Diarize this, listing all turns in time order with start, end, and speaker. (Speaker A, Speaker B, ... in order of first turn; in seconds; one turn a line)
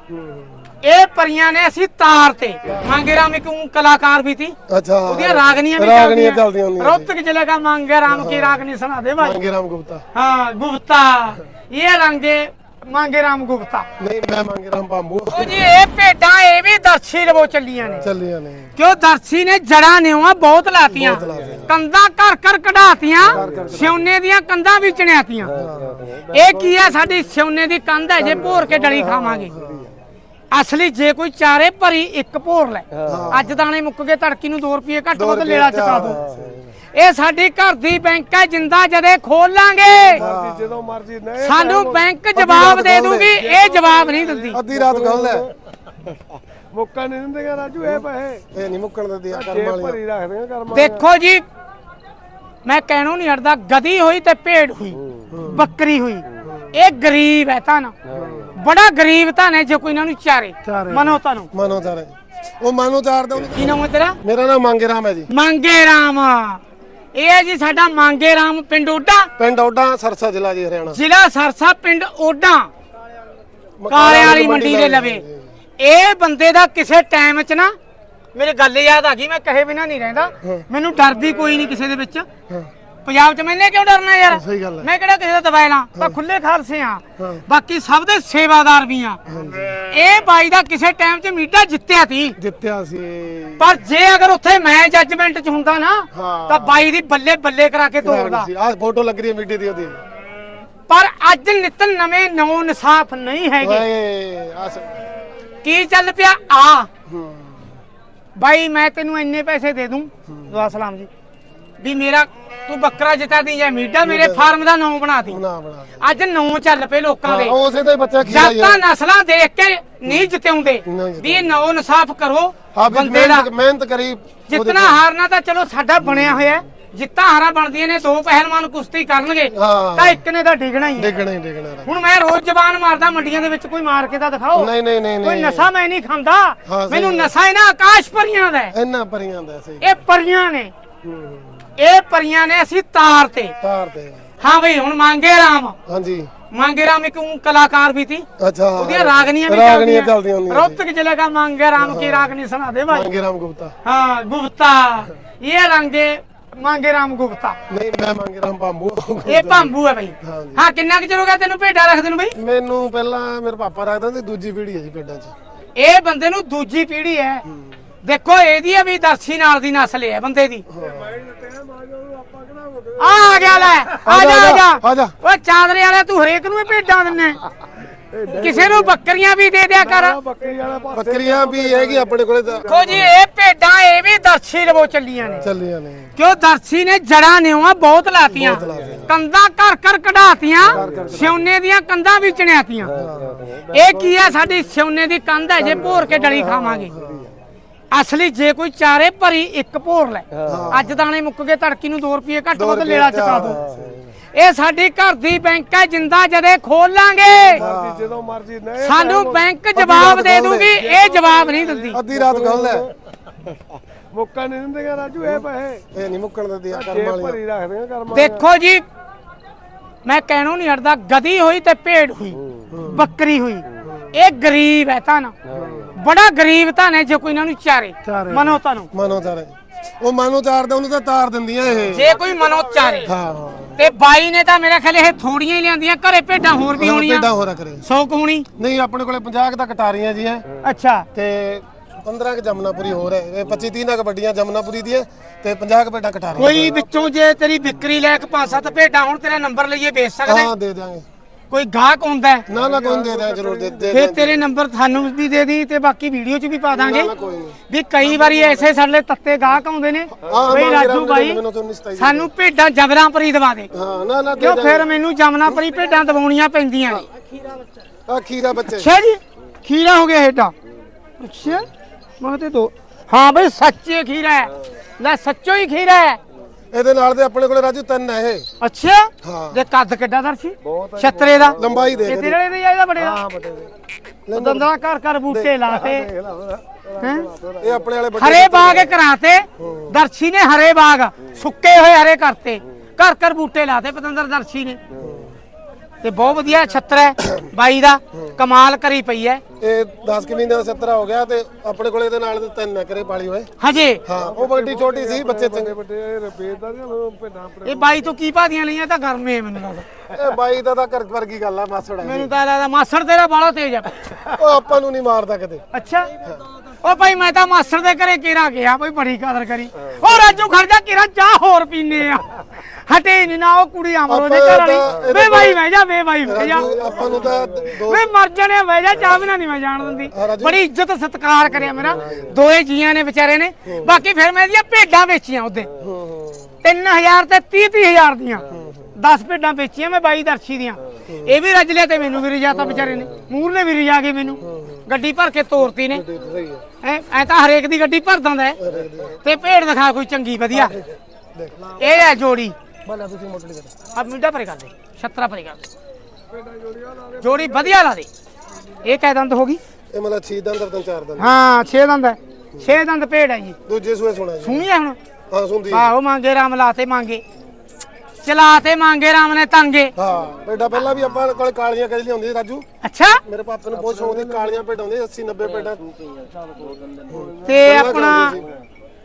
Speaker A: 0.1-0.8
Speaker B: 0.8-9.4
Speaker A: 4.7-7.1
Speaker A: 8.1-8.6
Speaker A: 9.2-10.0
Speaker B: 10.1-13.9
Speaker A: 14.0-15.6
Speaker B: 15.3-18.1
Speaker A: 18.0-18.7
Speaker B: 18.8-25.5
Speaker A: 20.9-21.8
Speaker C: 21.2-21.6
Speaker A: 23.2-24.0
Speaker C: 23.2-24.0
Speaker A: 25.5-26.2
Speaker C: 25.8-27.2
Speaker B: 26.3-29.5
Speaker A: 28.2-28.9
Speaker C: 28.2-29.9
Speaker A: 29.5-30.0
Speaker B: 30.5-36.2
Speaker C: 32.9-33.3
Speaker A: 33.0-33.6
Speaker A: 35.1-36.6
Speaker C: 36.2-36.6
Speaker B: 36.9-40.2
Speaker A: 40.1-40.7
Speaker C: 40.1-42.1
Speaker B: 41.4-44.6
Speaker A: 42.3-43.4
Speaker C: 43.3-45.5
Speaker A: 44.5-45.5
Speaker C: 46.7-48.4
Speaker A: 48.5-50.0
Speaker C: 49.3-51.0
Speaker B: 50.7-51.4
Speaker B: 52.6-57.9
Speaker A: 55.3-55.7
Speaker C: 58.1-58.5
Speaker A: 58.1-58.5
Speaker B: 58.5-61.5
Speaker A: 60.7-65.3
Speaker B: 63.5-64.2
Speaker B: 65.3-66.6
Speaker B: 67.1-69.3
Speaker A: 69.4-71.0
Speaker B: 70.9-72.7
Speaker A: 73.8-75.5
Speaker B: 73.9-75.2
Speaker B: 75.8-77.7
Speaker B: 78.3-82.3
Speaker A: 80.4-80.7
Speaker B: 83.0-89.2
Speaker A: 84.3-84.9
Speaker A: 87.2-87.5
Speaker A: 89.2-89.8
Speaker B: 89.9-92.3
Speaker A: 92.4-93.8
Speaker B: 93.6-98.5
Speaker A: 96.1-96.9
Speaker A: 98.0-100.0
Speaker B: 100.9-103.8
Speaker A: 103.6-105.0
Speaker B: 105.6-106.9
Speaker A: 107.1-107.8
Speaker B: 108.3-111.1
Speaker A: 110.2-110.6
Speaker B: 111.8-115.4
Speaker A: 114.0-114.6
Speaker A: 115.3-116.0
Speaker B: 116.0-117.5
Speaker A: 117.2-118.8
Speaker B: 118.2-123.5
Speaker A: 120.8-121.6
Speaker A: 122.7-125.0
Speaker B: 124.5-131.2
Speaker A: 126.0-126.6
Speaker A: 129.5-130.2
Speaker A: 130.9-131.9
Speaker B: 131.8-138.7
Speaker A: 134.5-135.7
Speaker A: 136.7-137.3
Speaker A: 138.7-140.0
Speaker B: 139.8-140.7
Speaker A: 141.0-141.7
Speaker B: 141.8-143.5
Speaker A: 143.6-144.3
Speaker B: 144.4-145.8
Speaker A: 145.8-146.3
Speaker B: 146.5-148.2
Speaker A: 148.4-150.8
Speaker B: 148.8-153.1
Speaker A: 151.8-152.3
Speaker A: 152.9-153.8
Speaker B: 153.8-157.6
Speaker A: 157.7-160.6
Speaker B: 159.2-162.3
Speaker A: 162.4-165.3
Speaker B: 165.8-167.4
Speaker A: 167.5-167.8
Speaker B: 168.0-170.6
Speaker A: 170.7-171.1
Speaker C: 170.8-174.0
Speaker B: 173.0-177.4
Speaker A: 174.0-175.1
Speaker C: 178.1-178.9
Speaker B: 178.3-180.2
Speaker C: 179.8-183.1
Speaker A: 180.9-183.0
Speaker B: 182.7-185.5
Speaker A: 185.4-186.1
Speaker B: 186.2-192.9
Speaker A: 188.3-189.2
Speaker C: 188.6-189.1
Speaker A: 190.7-191.4
Speaker C: 190.7-191.4
Speaker A: 192.9-193.6
Speaker C: 193.0-194.5
Speaker B: 193.7-196.9
Speaker A: 195.6-197.3
Speaker C: 195.6-197.3
Speaker B: 197.9-203.6
Speaker C: 200.3-200.7
Speaker A: 200.4-201.0
Speaker A: 202.5-204.1
Speaker C: 203.6-203.9
Speaker B: 204.3-207.6
Speaker C: 207.5-209.5
Speaker A: 207.6-208.1
Speaker B: 208.8-212.0
Speaker A: 209.7-210.8
Speaker C: 210.7-212.9
Speaker A: 211.9-212.9
Speaker C: 214.1-215.8
Speaker A: 215.9-217.4
Speaker C: 216.7-218.4
Speaker B: 218.1-218.8
Speaker B: 220.0-225.3
Speaker A: 222.7-223.1
Speaker A: 223.8-224.1
Speaker C: 225.5-225.9
Speaker A: 225.5-225.9
Speaker B: 225.9-228.9
Speaker A: 228.1-232.2
Speaker B: 231.9-233.1
Speaker A: 233.0-233.8
Speaker B: 233.8-237.3
Speaker A: 236.8-237.8
Speaker B: 237.8-238.4
Speaker A: 238.6-240.4
Speaker B: 240.6-241.1
Speaker A: 241.1-246.8
Speaker B: 246.4-250.5
Speaker A: 250.2-251.1
Speaker B: 251.5-252.4
Speaker A: 252.5-254.4
Speaker C: 252.5-253.9
Speaker B: 253.9-257.1
Speaker A: 256.7-257.6
Speaker B: 257.7-261.4
Speaker A: 260.2-262.3
Speaker B: 262.0-263.7
Speaker A: 263.7-264.9
Speaker B: 264.4-267.1
Speaker A: 268.1-268.9
Speaker B: 268.7-270.5
Speaker B: 271.2-271.7
Speaker B: 272.2-276.2
Speaker A: 276.7-278.5
Speaker B: 278.6-281.6
Speaker A: 279.2-279.6
Speaker C: 280.6-282.1
Speaker A: 281.6-282.4
Speaker B: 282.1-283.2
Speaker A: 283.0-283.7
Speaker A: 284.3-284.7
Speaker B: 284.3-286.1
Speaker A: 285.3-285.6
Speaker C: 285.6-287.9
Speaker B: 287.0-287.3
Speaker A: 287.6-288.9
Speaker B: 288.2-294.8
Speaker A: 289.6-290.0
Speaker A: 294.9-295.4
Speaker B: 296.0-299.4
Speaker A: 298.1-298.4
Speaker A: 299.6-303.5
Speaker B: 303.6-304.0
Speaker A: 304.0-305.7
Speaker C: 304.1-308.1
Speaker B: 307.6-309.9
Speaker A: 310.1-312.3
Speaker B: 312.0-313.9
Speaker A: 314.3-315.6
Speaker B: 315.7-316.1
Speaker B: 316.8-326.7
Speaker A: 324.1-325.6
Speaker A: 326.2-328.1
Speaker C: 326.5-327.7
Speaker B: 327.8-335.7
Speaker A: 330.1-330.6
Speaker C: 331.9-332.3
Speaker A: 331.9-332.3
Speaker A: 333.6-334.0
Speaker A: 335.8-336.6
Speaker B: 336.6-346.0
Speaker A: 338.5-338.9
Speaker A: 341.1-341.4
Speaker A: 342.5-343.1
Speaker A: 344.4-344.9
Speaker A: 345.9-346.6
Speaker B: 346.8-348.6
Speaker A: 348.6-349.2
Speaker B: 349.2-350.7
Speaker A: 350.5-351.8
Speaker B: 351.8-352.5
Speaker A: 352.8-353.8
Speaker B: 353.9-355.6
Speaker C: 356.3-357.8
Speaker B: 357.2-358.1
Speaker B: 358.8-359.6
Speaker A: 359.9-361.4
Speaker B: 361.2-363.6
Speaker A: 363.7-364.6
Speaker B: 364.4-365.0
Speaker A: 365.3-365.9
Speaker B: 365.7-367.2
Speaker B: 368.2-369.9
Speaker A: 369.9-372.6
Speaker B: 372.8-373.2
Speaker A: 373.2-375.8
Speaker C: 373.7-374.6
Speaker C: 376.1-378.5
Speaker A: 377.1-378.4
Speaker B: 377.4-378.4